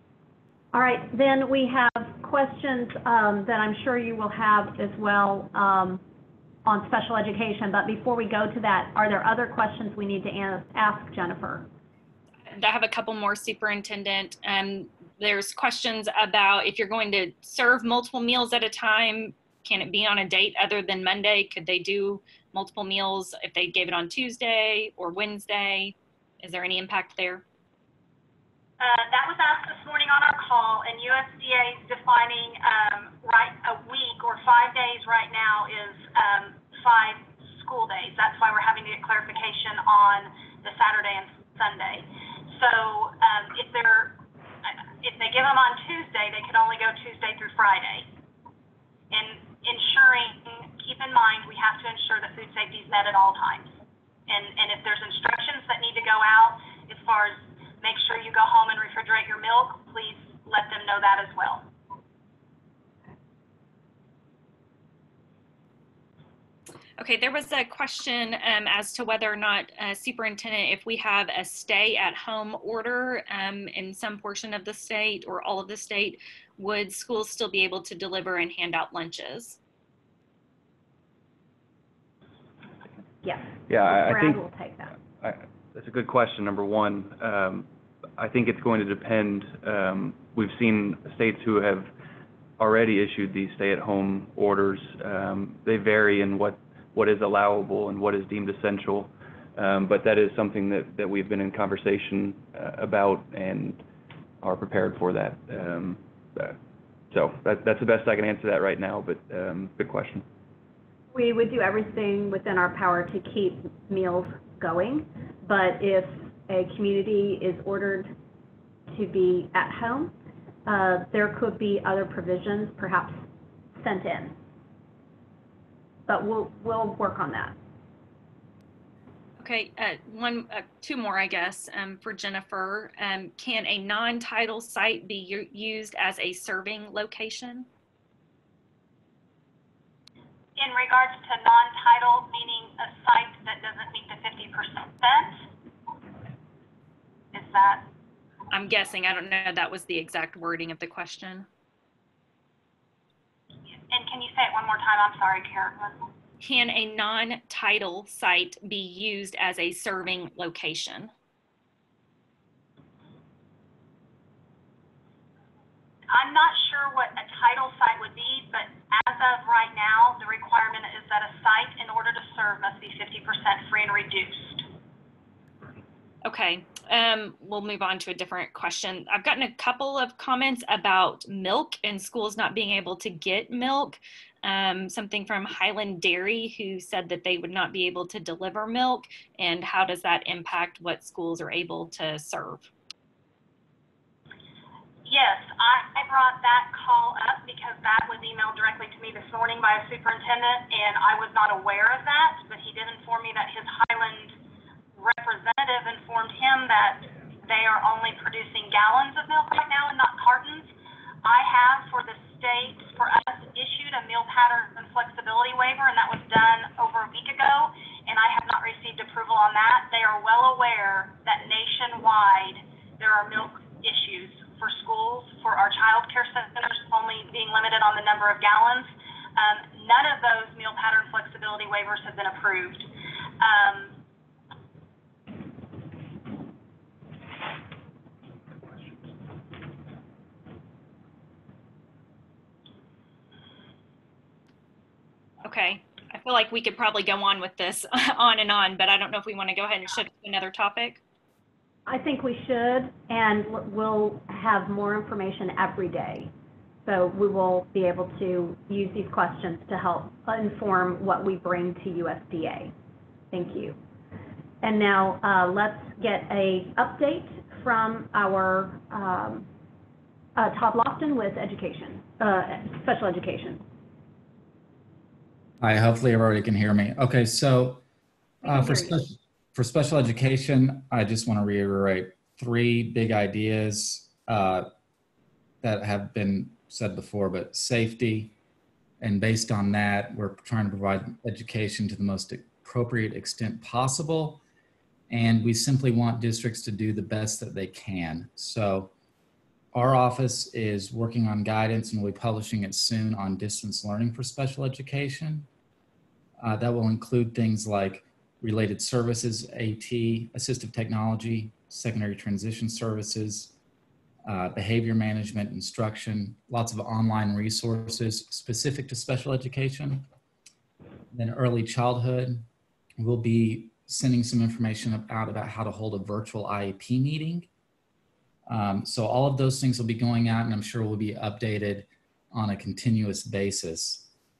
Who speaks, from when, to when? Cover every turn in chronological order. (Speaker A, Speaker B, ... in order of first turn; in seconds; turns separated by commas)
Speaker A: 0.7-6.0, Speaker A: 6.6-11.7, Speaker B: 12.5-27.4, Speaker C: 28.8-48.1, Speaker C: 49.1-53.7, Speaker C: 54.3-61.7, Speaker B: 67.0-79.6, Speaker A: 83.2-85.0, Speaker D: 83.7-84.4, Speaker D: 85.2-91.9, Speaker D: 92.6-103.8, Speaker D: 104.4-106.6, Speaker D: 107.1-110.2, Speaker A: 111.1-118.1, Speaker A: 118.9-120.1, Speaker A: 120.7-123.2, Speaker A: 123.8-124.4, Speaker A: 126.1-127.5, Speaker B: 129.4-137.7, Speaker C: 140.6-145.4, Speaker C: 147.3-147.9, Speaker B: 148.5-151.5, Speaker C: 153.7-156.0, Speaker B: 156.4-161.1, Speaker C: 166.1-174.7, Speaker B: 176.2-192.7, Speaker C: 195.0-204.4, Speaker C: 205.0-210.7, Speaker C: 211.2-232.9, Speaker C: 233.4-233.9, Speaker B: 245.4-251.0, Speaker A: 251.9-256.3, Speaker A: 256.9-262.7, Speaker A: 263.3-263.8, Speaker A: 264.6-269.5, Speaker A: 270.4-273.6, Speaker E: 275.6-277.8, Speaker E: 278.4-284.7, Speaker A: 278.4-278.9, Speaker E: 285.6-288.3, Speaker E: 289.0-294.4, Speaker E: 295.1-298.9, Speaker E: 299.7-305.5, Speaker E: 306.4-313.5, Speaker E: 314.2-320.1, Speaker E: 321.1-322.4, Speaker E: 323.0-327.5, Speaker E: 328.5-334.1